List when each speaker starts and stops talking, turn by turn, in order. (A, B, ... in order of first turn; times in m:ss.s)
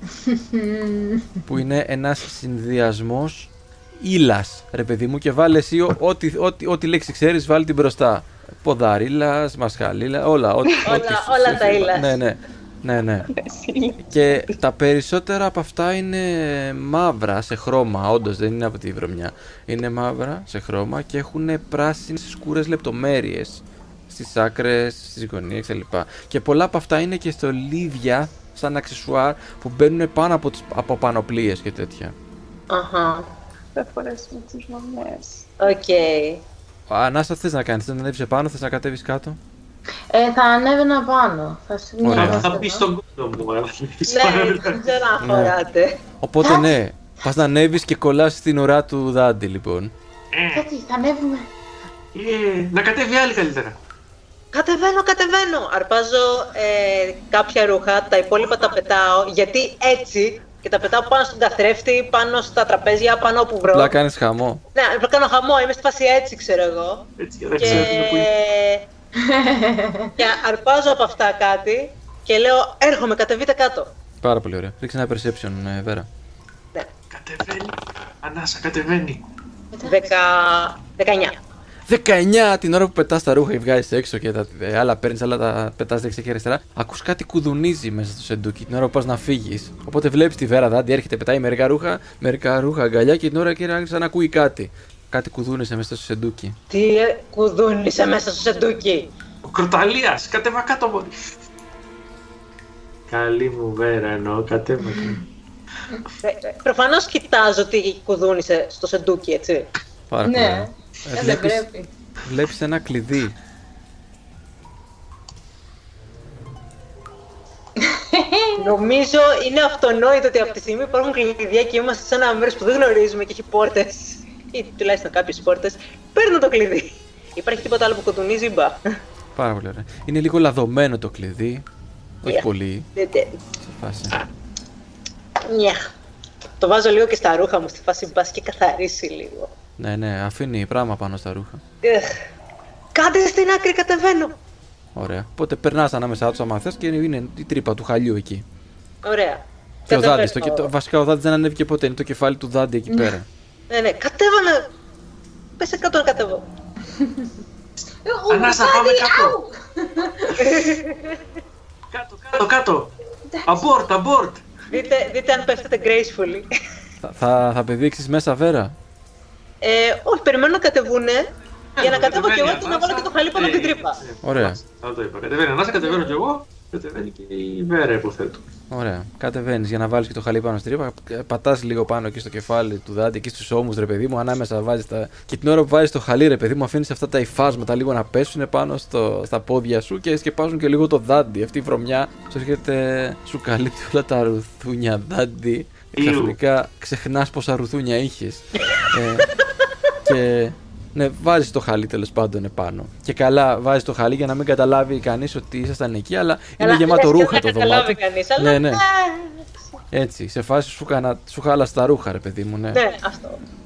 0:00.2-0:01.3 A
0:01.4-0:13.3 B
0:10.7-0:11.0 C
0:10.9-0:12.2 D
0:13.3-0:14.5 C
0:14.1-0:32.2 B
0:32.7-0:33.3 D
0:33.8-0:35.5 C
0:35.6-0:36.4 D
0:36.9-0:39.4 B
0:40.1-0:42.9 A
0:42.0-0:42.6 B
0:42.2-0:44.8 E
0:44.1-0:46.0 D
0:45.2-0:45.6 B
0:46.2-0:49.9 B
0:46.4-0:46.7 A
0:50.3-0:50.7 E
0:50.5-0:51.5 A
0:52.2-0:53.8 E
0:54.5-1:03.9 D
1:03.7-1:04.6 B
1:04.8-1:07.0 D
1:07.2-1:08.3 E
1:07.6-1:08.9 D
1:07.6-1:07.9 B
1:09.2-1:10.2 A
1:10.2-1:13.9 D
1:14.2-1:16.1 B
1:17.1-1:19.2 E
1:19.7-1:20.0 A
1:19.8-1:21.4 D
1:21.9-1:36.6 B
1:36.7-1:39.1 D
1:39.4-1:41.1 E
1:43.1-1:45.2 E
1:44.9-1:45.2 A
1:46.2-1:49.7 D
1:50.1-1:51.7 B
1:50.3-1:51.9 A
1:52.2-1:53.4 B
1:57.8-1:58.7 A
1:58.6-2:08.8 D
2:09.4-2:11.7 B
2:12.2-2:12.9 B
2:12.3-2:13.4 D
2:13.6-2:14.2 B
2:15.5-2:15.9 D
2:16.6-2:19.5 D
2:19.8-2:21.6 B
2:21.8-2:22.2 D
2:23.0-2:24.4 D
2:25.0-2:28.4 B
2:29.0-2:30.7 D
2:29.9-2:33.3 B
2:32.9-2:33.2 A
2:33.7-2:34.7 D
2:35.6-2:36.4 D
2:36.9-2:37.3 A
2:38.0-2:40.5 A
2:38.3-2:39.4 E
2:40.4-2:41.2 D
2:41.9-2:42.9 E
2:43.5-2:44.5 E
2:44.7-2:46.5 D
2:47.0-2:48.7 B
2:49.6-2:51.3 D
2:51.8-2:58.5 E
2:51.8-2:54.0 D
2:54.2-2:54.6 B
2:58.7-3:19.3 B
3:16.0-3:16.4 E
3:20.0-3:28.8 B
3:26.6-3:29.5 D
3:29.9-3:32.8 B
3:32.7-3:33.4 D